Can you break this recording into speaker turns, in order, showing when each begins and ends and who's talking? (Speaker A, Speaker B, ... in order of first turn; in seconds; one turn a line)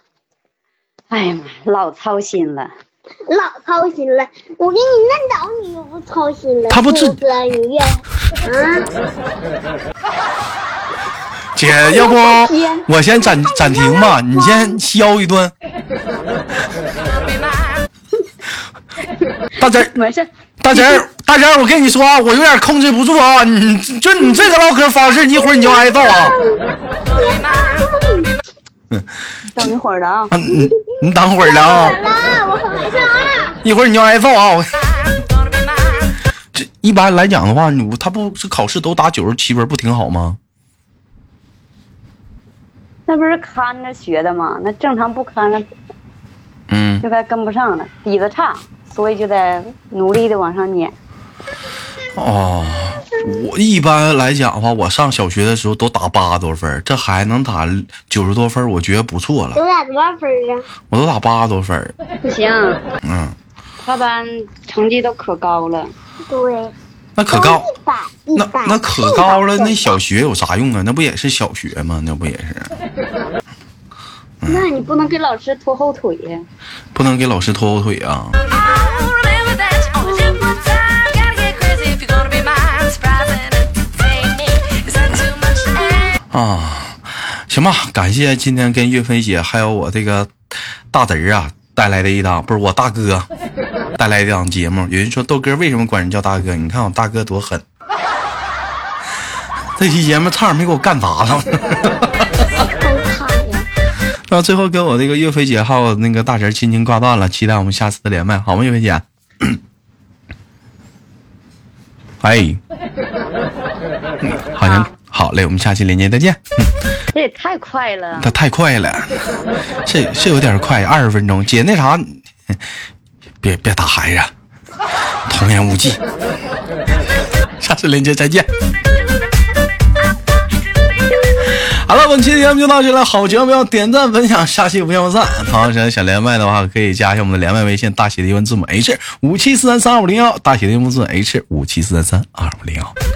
Speaker A: 1.1-2.7
Speaker B: 3.3-8.8
Speaker C: 6.7-7.2
Speaker C: 11.6-15.5
Speaker B: 11.7-14.8
Speaker C: 19.6-19.9
Speaker A: 19.6-21.0
Speaker C: 20.6-26.4
Speaker B: 24.2-24.5
Speaker B: 25.4-26.6
Speaker B: 27.1-28.3
Speaker A: 29.5-30.4
Speaker C: 30.3-32.0
Speaker B: 30.8-33.6
Speaker C: 33.6-35.0
Speaker C: 36.5-40.4
Speaker A: 43.1-45.7
Speaker C: 46.7-47.0
Speaker A: 47.0-50.9
Speaker C: 52.1-59.6
Speaker B: 59.5-60.7
Speaker C: 60.9-62.0
Speaker A: 62.2-62.8
Speaker C: 63.0-63.4
Speaker A: 63.8-65.9
Speaker B: 66.3-66.7
Speaker C: 67.2-67.7
Speaker B: 67.3-70.0
Speaker C: 68.4-72.7
Speaker A: 74.5-76.5
Speaker C: 77.0-78.4
Speaker A: 80.0-80.4
Speaker A: 80.9-82.0
Speaker A: 82.9-83.2
Speaker C: 86.3-90.3
Speaker C: 90.9-93.3
Speaker C: 94.0-97.6
Speaker C: 99.8-102.2
Speaker B: 102.8-103.7
Speaker C: 104.3-109.6
Speaker C: 112.2-112.6
Speaker C: 114.2-116.7
Speaker A: 114.6-114.9
Speaker A: 117.1-118.3
Speaker C: 118.2-119.2
Speaker C: 119.8-122.6
Speaker C: 123.4-124.3
Speaker C: 125.3-126.0
Speaker C: 127.6-128.5
Speaker C: 131.5-142.9